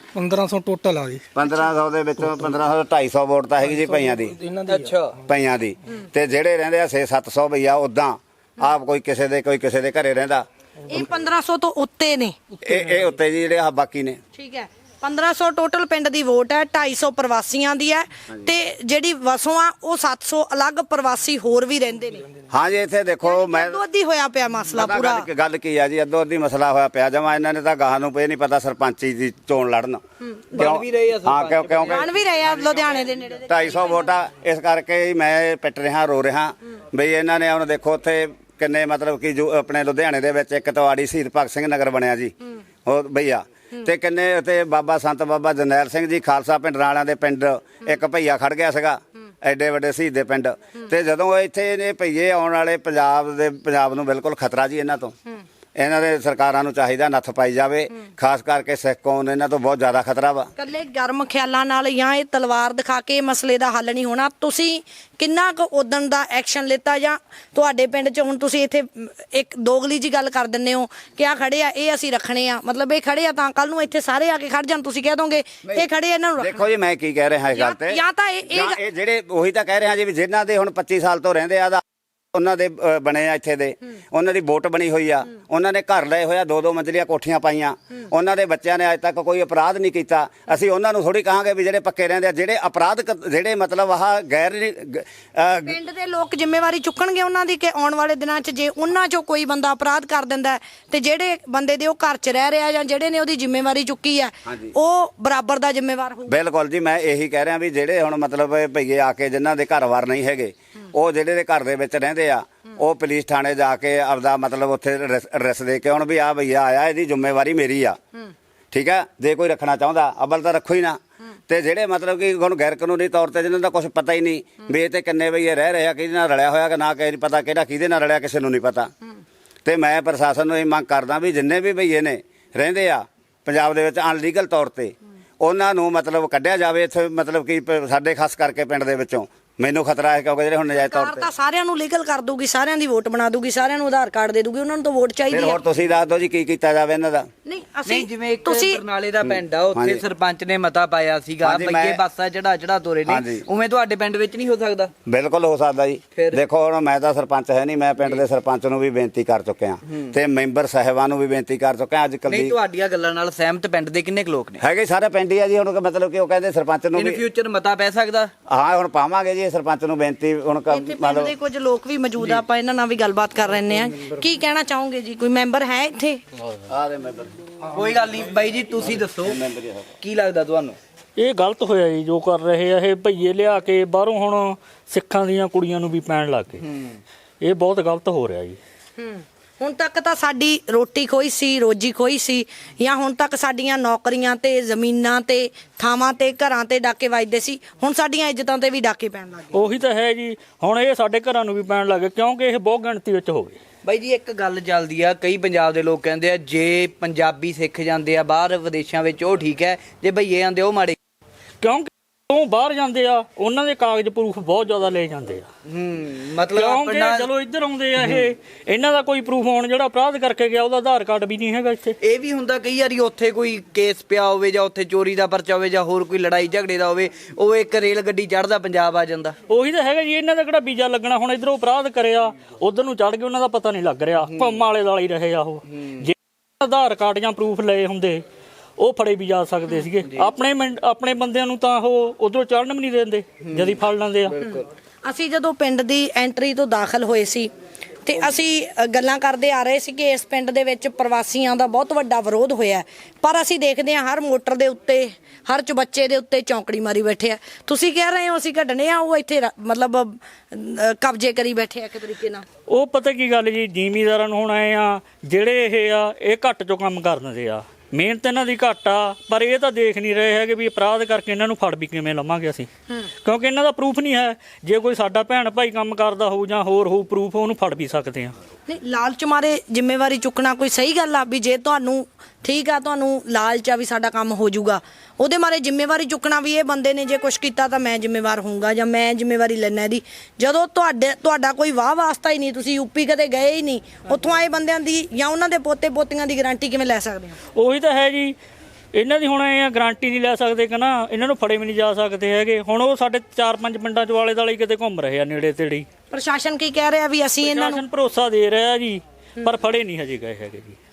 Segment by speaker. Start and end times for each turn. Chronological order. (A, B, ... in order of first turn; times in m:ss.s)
0:00.2-0:01.3 A
0:01.4-0:04.4 B
0:03.8-0:05.0 A
0:04.7-0:05.2 C
0:05.3-0:10.5 B
0:10.9-0:12.4 D
0:12.6-0:14.2 B
0:14.4-0:22.3 D
0:22.5-0:23.8 B
0:23.2-0:25.3 D
0:24.7-0:30.0 B
0:30.5-0:32.1 C
0:30.6-0:32.1 B
0:31.9-0:34.1 D
0:33.5-0:55.2 B
0:55.8-1:00.5 B
1:00.6-1:16.6 D
1:16.4-1:35.8 B
1:17.6-1:18.8 D
1:35.7-1:46.4 D
1:44.5-1:44.7 B
1:46.3-1:58.0 B
1:58.7-2:08.9 B
2:09.6-2:21.3 B
2:20.8-2:25.6 D
2:25.3-2:27.3 B
2:27.4-2:28.8 D
2:27.9-2:34.9 C
2:29.2-2:30.0 B
2:31.4-2:32.0 B
2:33.1-2:33.4 B
2:35.0-2:42.6 B
2:39.9-2:40.1 C
2:42.3-2:44.6 C
2:44.6-2:47.2 B
2:46.9-2:48.3 C
2:48.5-2:51.3 B
2:50.7-2:56.2 D
2:56.7-2:57.4 B
2:57.7-2:59.4 C
2:58.9-2:59.9 B
3:00.0-3:00.8 C
3:01.2-3:06.6 E
3:06.6-3:07.0 C
3:07.4-3:08.6 E
3:09.0-3:19.6 D
3:19.5-3:23.6 E
3:23.8-3:31.0 C
3:31.6-3:35.5 E
3:35.7-3:37.3 C
3:36.5-3:42.0 E
3:38.0-3:38.3 C
3:42.0-3:49.4 C
3:49.5-3:58.2 E
3:54.3-3:54.6 C
3:55.7-3:56.0 C
3:58.8-4:04.4 E
4:03.5-4:03.8 C
4:04.3-4:04.7 C
4:04.5-4:07.5 D
4:08.1-4:22.5 D
4:22.7-4:32.7 E
4:33.2-4:38.4 E
4:38.7-4:57.4 D
4:57.6-4:58.4 E
4:58.9-5:05.9 E
5:06.1-5:07.8 D
5:07.4-5:10.8 E